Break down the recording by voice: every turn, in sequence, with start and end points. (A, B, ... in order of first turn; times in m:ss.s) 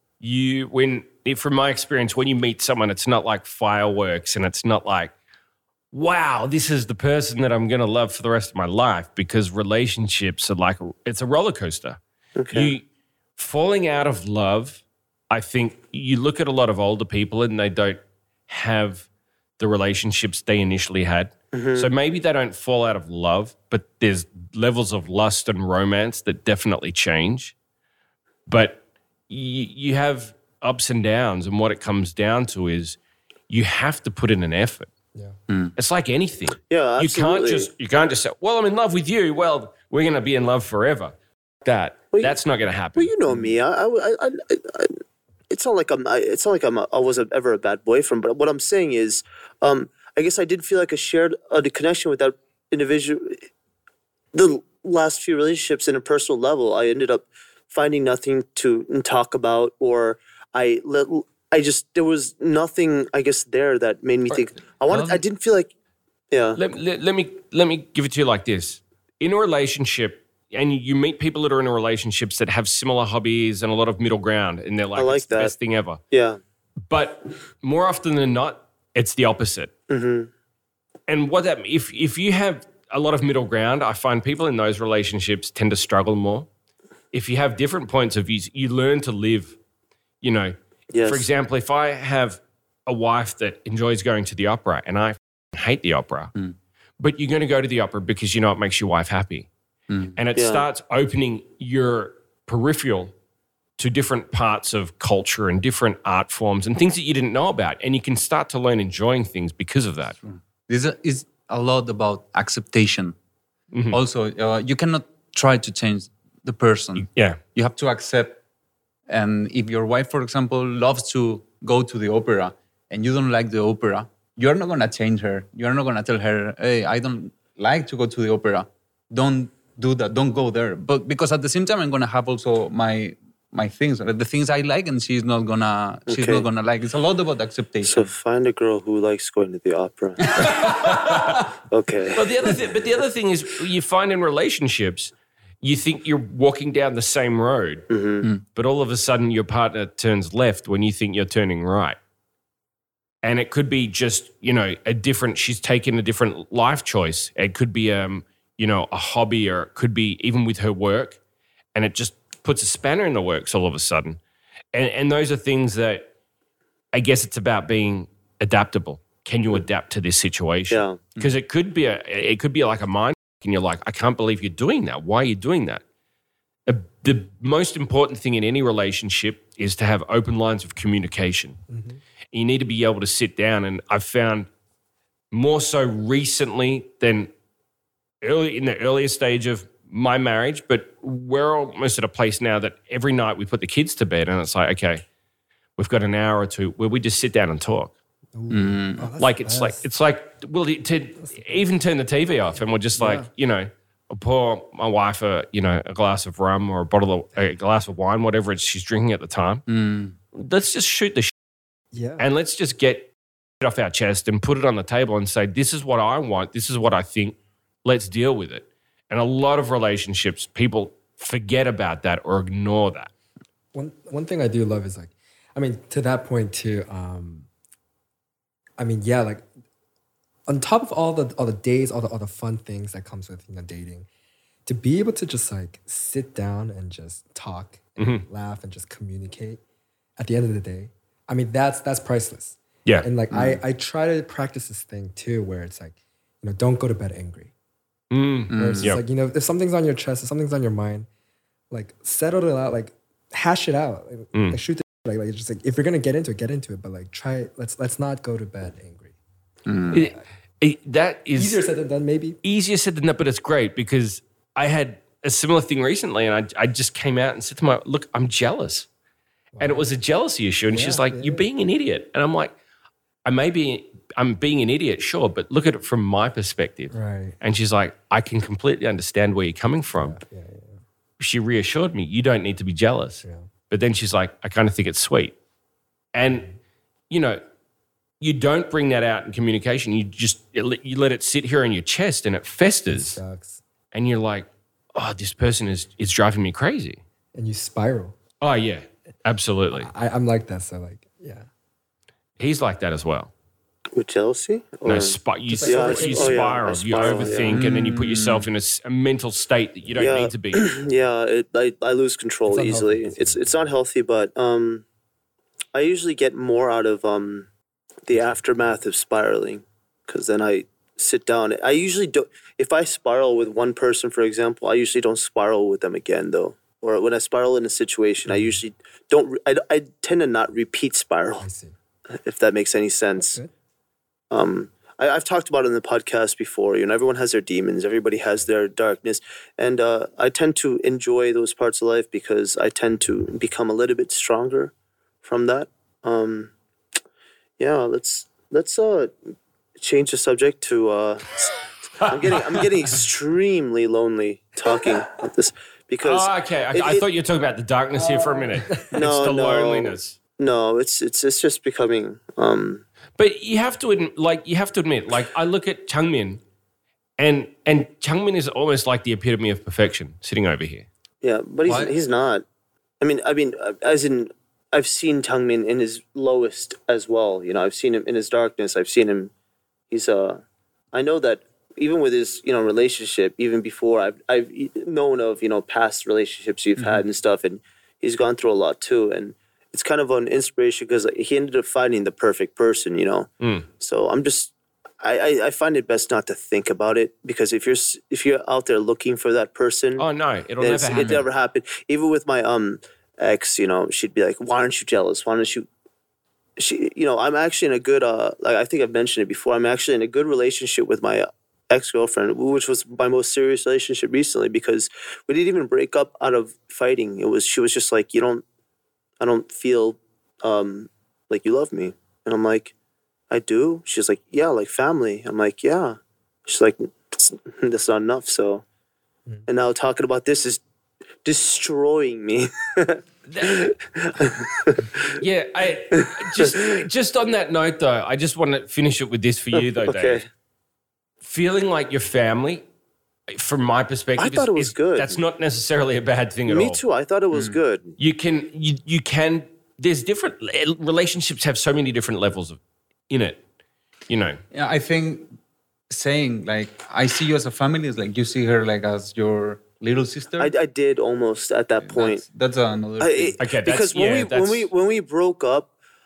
0:00.2-0:05.1 A
0:05.9-0:12.0 A
0:12.4-0:12.7 B
0:12.5-0:12.8 A
0:13.4-0:19.0 A
0:19.6-0:27.5 A
0:21.5-0:21.9 B
0:28.5-0:33.0 A
0:33.5-0:34.9 A
0:35.5-0:35.7 C
0:35.8-0:43.1 A
0:36.7-0:37.7 B
0:43.0-0:44.9 B
0:45.5-0:53.4 B
0:54.3-1:05.7 B
1:04.9-1:05.2 C
1:06.3-1:06.6 B
1:06.6-1:16.0 A
1:14.9-1:15.5 B
1:16.1-1:16.4 B
1:16.9-1:19.7 A
1:19.9-1:20.3 B
1:21.1-1:26.5 A
1:27.1-1:29.6 A
1:30.2-1:36.3 A
1:30.9-1:31.3 B
1:37.0-1:39.5 A
1:39.9-1:40.2 C
1:40.2-1:43.1 A
1:40.4-1:40.6 B
1:43.8-1:50.2 A
1:50.2-1:53.2 C
1:53.7-1:54.0 A
1:53.9-1:58.4 C
1:57.0-1:57.4 A
1:59.1-2:18.1 C
2:16.1-2:16.4 B
2:17.8-2:20.7 B
2:20.4-2:21.2 C
2:21.7-2:22.3 B
2:22.1-2:27.8 A
2:27.9-2:28.2 B
2:28.5-2:32.0 A
2:33.2-2:41.2 A
2:41.7-2:44.2 A
2:44.7-2:46.0 A
2:46.9-2:55.8 A
2:50.7-2:51.0 B
2:56.7-3:01.6 A
3:01.7-3:02.0 D
3:02.3-3:04.5 A
3:05.3-3:07.3 A
3:08.2-3:15.0 A
3:15.8-3:17.9 A
3:18.3-3:19.8 D
3:18.5-3:19.1 C
3:19.2-3:29.6 A
3:21.2-3:21.6 D
3:22.9-3:23.3 D
3:29.7-3:30.2 C
3:30.3-3:31.3 A
3:31.9-3:32.2 D
3:32.2-3:33.1 A
3:33.6-3:43.1 A
3:43.7-3:47.5 D
3:48.8-3:49.4 D
3:50.5-3:54.1 D
3:54.6-3:59.6 D
3:58.0-3:58.2 A
4:00.2-4:07.5 D
4:03.3-4:03.6 C
4:08.1-4:09.0 A
4:08.5-4:09.0 C
4:08.5-4:11.1 D
4:11.7-4:19.2 D
4:19.6-4:20.0 C
4:19.9-4:21.6 A
4:21.3-4:22.4 D
4:22.4-4:28.9 A
4:29.5-4:29.8 D
4:29.6-4:32.5 A
4:30.7-4:31.4 D
4:33.2-4:40.2 A
4:36.9-4:37.4 D
4:39.9-4:40.8 D
4:41.2-4:45.3 A
4:43.2-4:43.5 D
4:46.1-4:46.5 A
4:47.1-4:47.4 A
4:48.2-4:53.2 A
4:52.9-4:53.6 D
4:53.9-4:57.0 A
4:57.3-4:58.2 D
4:58.4-4:59.9 A
4:59.8-5:01.5 D
5:02.4-5:03.3 A
5:03.9-5:07.6 B
5:04.8-5:10.7 A
5:05.5-5:07.5 D
5:07.5-5:08.5 C
5:10.0-5:14.8 B
5:12.5-5:13.7 D
5:15.7-5:17.5 B
5:18.1-5:31.4 B
5:28.3-5:28.6 D
5:31.4-5:31.7 D
5:32.2-5:33.4 B
5:33.2-5:33.5 D
5:34.3-5:44.7 B
5:45.2-5:46.5 B
5:47.6-5:49.1 B
5:49.8-5:57.0 B
5:56.0-6:00.2 A
5:58.0-5:58.8 D
5:58.9-6:02.8 B
6:03.2-6:06.4 A
6:07.2-6:10.8 A
6:11.2-6:12.4 B
6:11.6-6:11.9 C
6:13.0-6:19.3 B
6:19.9-6:20.4 B
6:20.9-6:33.3 B
6:26.8-6:27.0 C
6:33.4-6:33.6 A
6:33.8-6:40.0 B
6:40.0-6:41.2 A
6:40.6-6:45.7 B
6:40.9-6:41.2 C
6:46.6-6:58.4 B
6:59.2-7:02.7 B
7:03.3-7:08.6 B
7:09.5-7:10.6 B
7:11.2-7:15.1 B
7:13.3-7:13.7 A
7:15.2-7:20.2 A
7:16.0-7:16.6 B
7:19.5-7:20.2 B
7:21.2-7:22.6 A
7:23.3-7:26.8 A
7:24.2-7:25.2 B
7:26.5-7:28.0 B
7:27.3-7:27.6 C
7:28.0-7:32.6 A
7:33.1-7:33.4 A
7:34.1-7:34.4 A
7:34.5-7:35.3 C
7:35.9-7:40.5 C
7:40.4-7:42.2 B
7:41.8-7:43.4 C
7:43.0-7:45.7 B
7:43.4-7:44.7 A